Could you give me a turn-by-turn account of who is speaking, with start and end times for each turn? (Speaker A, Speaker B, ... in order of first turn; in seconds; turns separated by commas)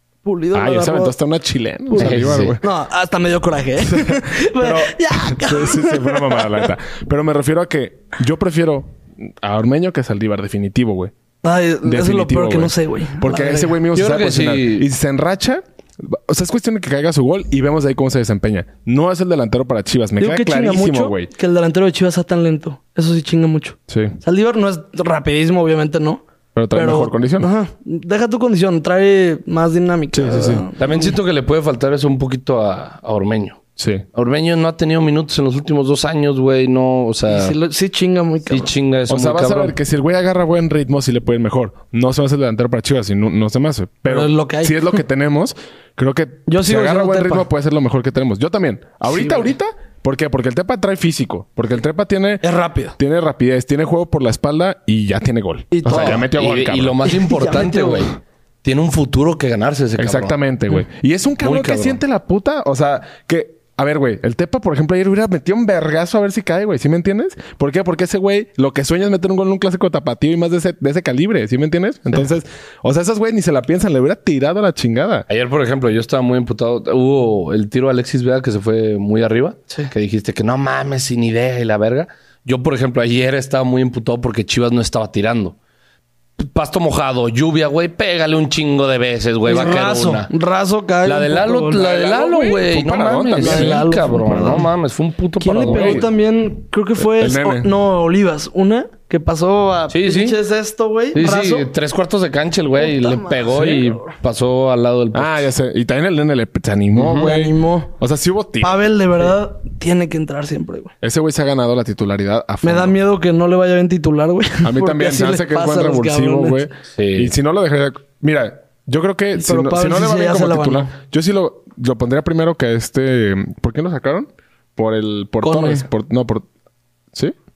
Speaker A: 0.2-1.1, Speaker B: 0.5-2.6, Speaker A: 1.9-6.7, Speaker C: 2.0-2.6, Speaker B: 3.8-11.1, Speaker A: 11.4-13.8, Speaker B: 11.8-21.3, Speaker C: 13.9-14.9, Speaker A: 20.2-26.2, Speaker B: 23.9-24.1, Speaker B: 26.5-27.5, Speaker A: 26.7-31.1, Speaker B: 30.1-30.7, Speaker C: 30.8-33.6, Speaker B: 33.8-34.0, Speaker C: 34.1-37.5, Speaker A: 37.3-38.7, Speaker C: 38.5-39.7, Speaker B: 39.1-52.4, Speaker A: 44.0-45.0, Speaker A: 46.5-47.5, Speaker A: 49.1-49.5, Speaker A: 52.4-53.0, Speaker B: 53.0-57.0, Speaker A: 55.7-56.2, Speaker C: 55.9-60.4, Speaker A: 57.0-58.1, Speaker B: 60.0-75.2, Speaker C: 61.4-62.0, Speaker C: 75.3-85.5, Speaker C: 86.4-90.3, Speaker A: 89.4-92.5, Speaker C: 91.0-96.1, Speaker B: 92.2-94.6, Speaker A: 93.4-94.7, Speaker A: 95.4-101.7, Speaker B: 95.6-96.1, Speaker B: 97.0-97.7, Speaker C: 99.9-100.4, Speaker C: 101.1-105.5, Speaker A: 102.8-104.1, Speaker B: 103.5-103.8, Speaker B: 105.1-109.2, Speaker C: 107.0-107.2, Speaker A: 107.0-107.9, Speaker A: 108.6-110.9, Speaker B: 111.0-113.0, Speaker A: 112.6-116.6, Speaker B: 114.6-126.5, Speaker C: 116.9-117.3, Speaker A: 119.3-120.9, Speaker A: 125.4-125.8